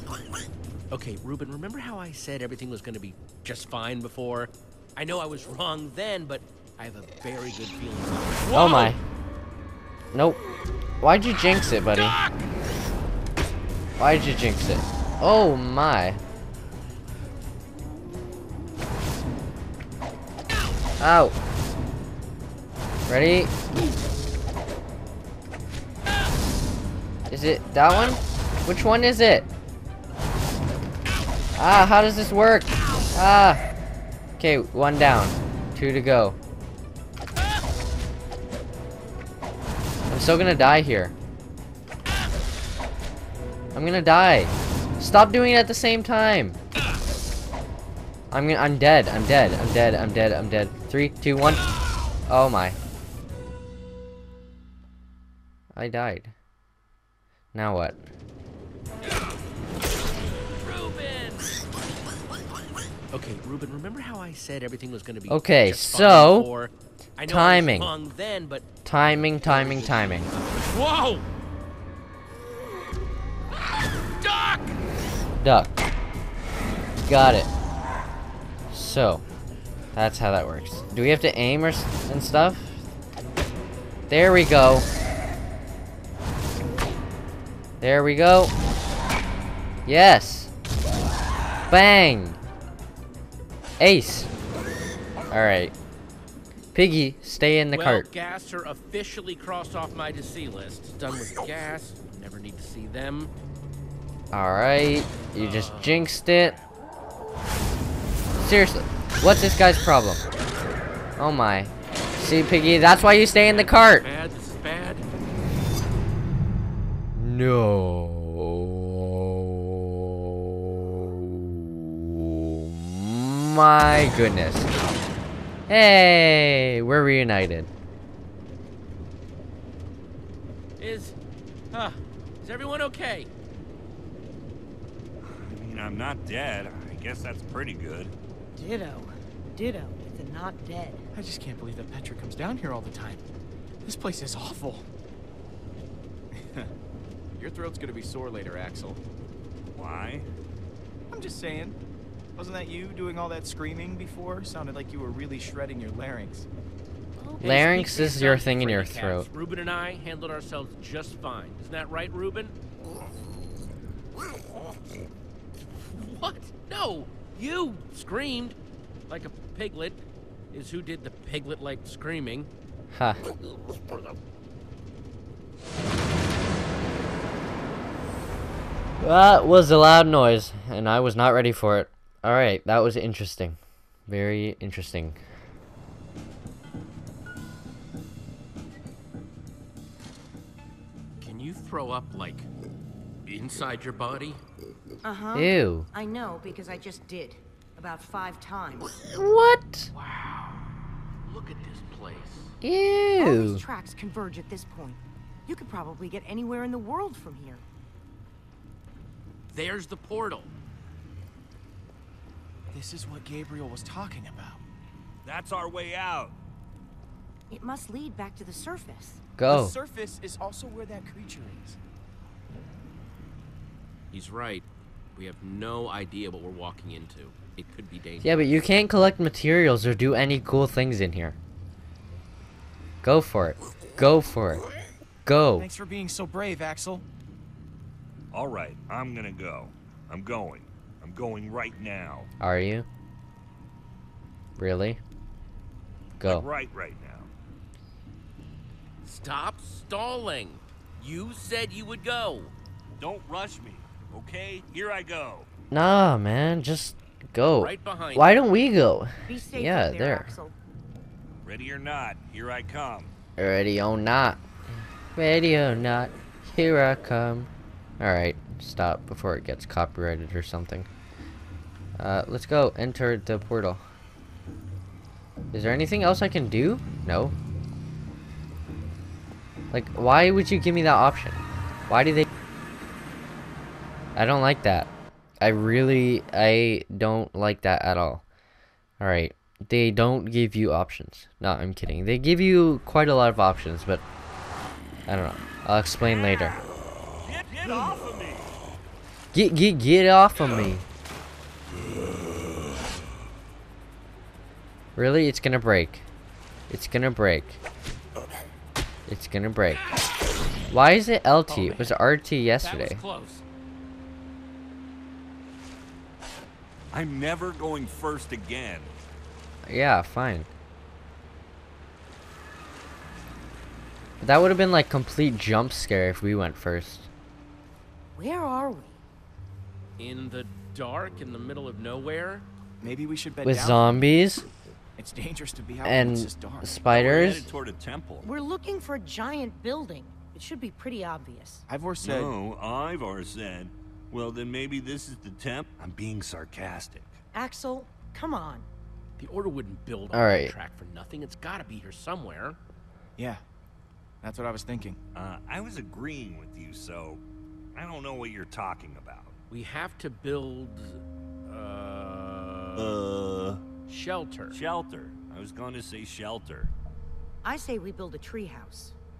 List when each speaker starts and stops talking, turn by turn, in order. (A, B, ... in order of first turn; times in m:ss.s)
0:00.9-0:09.0 A
0:08.5-0:09.0 B
0:10.1-0:10.4 B
0:11.0-0:12.2 B
0:11.9-0:12.4 A
0:14.0-0:16.2 B
0:21.0-0:21.4 B
0:23.1-0:23.5 B
0:27.3-0:29.5 B
0:31.6-0:33.6 B
0:34.4-0:36.4 B
0:40.1-0:41.1 B
0:43.7-0:46.6 B
0:48.3-0:51.7 B
0:52.3-0:52.8 B
0:55.7-0:56.3 B
0:57.5-0:58.0 B
0:59.0-0:59.3 A
1:00.6-1:01.6 A
1:03.1-1:11.2 A
1:05.3-1:06.5 B
1:07.2-1:07.9 B
1:08.8-1:10.3 B
1:13.8-1:14.8 A
1:15.4-1:15.8 B
1:17.0-1:17.5 B
1:18.7-1:19.2 B
1:19.9-1:22.8 B
1:24.1-1:24.9 B
1:27.8-1:28.5 B
1:29.8-1:30.5 B
1:31.7-1:32.4 B
1:33.8-1:34.3 B
1:35.3-1:35.7 B
1:36.7-1:38.1 B
1:37.7-1:43.3 A
1:44.3-1:46.6 B
1:45.3-1:46.4 A
1:48.4-1:50.3 B
1:51.2-1:54.1 B
1:53.4-1:55.0 A
1:57.1-2:04.7 B
2:05.7-2:07.7 B
2:10.8-2:11.1 A
2:11.7-2:13.3 A
2:15.2-2:18.1 C
2:18.6-2:21.0 D
2:21.1-2:23.2 E
2:23.8-2:24.9 E
2:26.3-2:26.7 E
2:27.4-2:29.0 E
2:29.7-2:30.2 C
2:31.1-2:31.8 E
2:32.4-2:36.5 E
2:37.2-2:42.5 A
2:37.4-2:39.3 B
2:45.9-2:48.6 A
2:49.1-2:50.0 A
2:50.5-2:52.5 A
2:52.9-2:53.2 B
2:59.0-3:05.2 B
3:11.2-3:12.5 A
3:13.2-3:14.4 A
3:15.0-3:18.9 D
3:15.3-3:15.9 B
3:19.1-3:19.9 B
3:19.9-3:20.7 A
3:21.2-3:22.5 A
3:22.6-3:23.6 B
3:23.2-3:27.6 D
3:29.5-3:30.5 A
3:32.7-3:34.6 E
3:35.2-3:36.4 C
3:37.5-3:39.2 D
3:39.4-3:39.8 B
3:39.5-3:41.8 E
3:44.1-3:48.7 A
3:48.2-3:51.4 B
3:53.0-3:54.6 B
3:55.2-3:55.7 B
3:55.6-3:57.0 E
3:58.3-4:02.3 C
4:02.4-4:02.9 B
4:04.6-4:05.0 B
4:06.2-4:06.5 B
4:06.2-4:07.3 C
4:09.0-4:12.5 A
4:13.0-4:15.5 C
4:15.7-4:20.3 B
4:17.5-4:18.4 A
4:19.2-4:20.5 D
4:21.4-4:23.1 C
4:23.4-4:24.4 B
4:25.1-4:30.9 B
4:32.0-4:33.8 B
4:35.5-4:37.3 B
4:39.7-4:42.2 B
4:44.2-4:44.9 B
4:45.4-4:48.2 B
4:49.0-4:54.0 B
4:55.1-4:56.6 B
4:57.2-4:58.5 C
4:59.3-5:00.8 B
5:05.0-5:06.0 B
5:06.7-5:07.6 B
5:09.1-5:09.8 B
5:10.7-5:13.0 B
5:11.5-5:12.0 A
5:12.6-5:13.4 A
5:16.9-5:18.9 C
5:19.6-5:20.5 B
5:24.2-5:27.1 B
5:28.1-5:29.0 D
5:30.0-5:32.4 A
5:32.8-5:34.0 E
5:33.4-5:34.4 B
5:35.0-5:36.7 E
5:35.8-5:37.5 B
5:36.9-5:38.3 C
5:38.2-5:41.6 D
5:41.7-5:42.3 E
5:42.0-5:47.1 C
5:47.3-5:48.7 D
5:49.2-5:52.6 A
5:50.1-5:50.5 B
5:53.2-5:53.4 E
5:54.2-5:55.0 E
5:55.1-5:57.2 C
5:57.7-5:59.4 C
5:59.5-6:03.0 A
6:02.8-6:03.6 C
6:03.9-6:04.6 A
6:04.5-6:06.7 C
6:07.4-6:08.9 D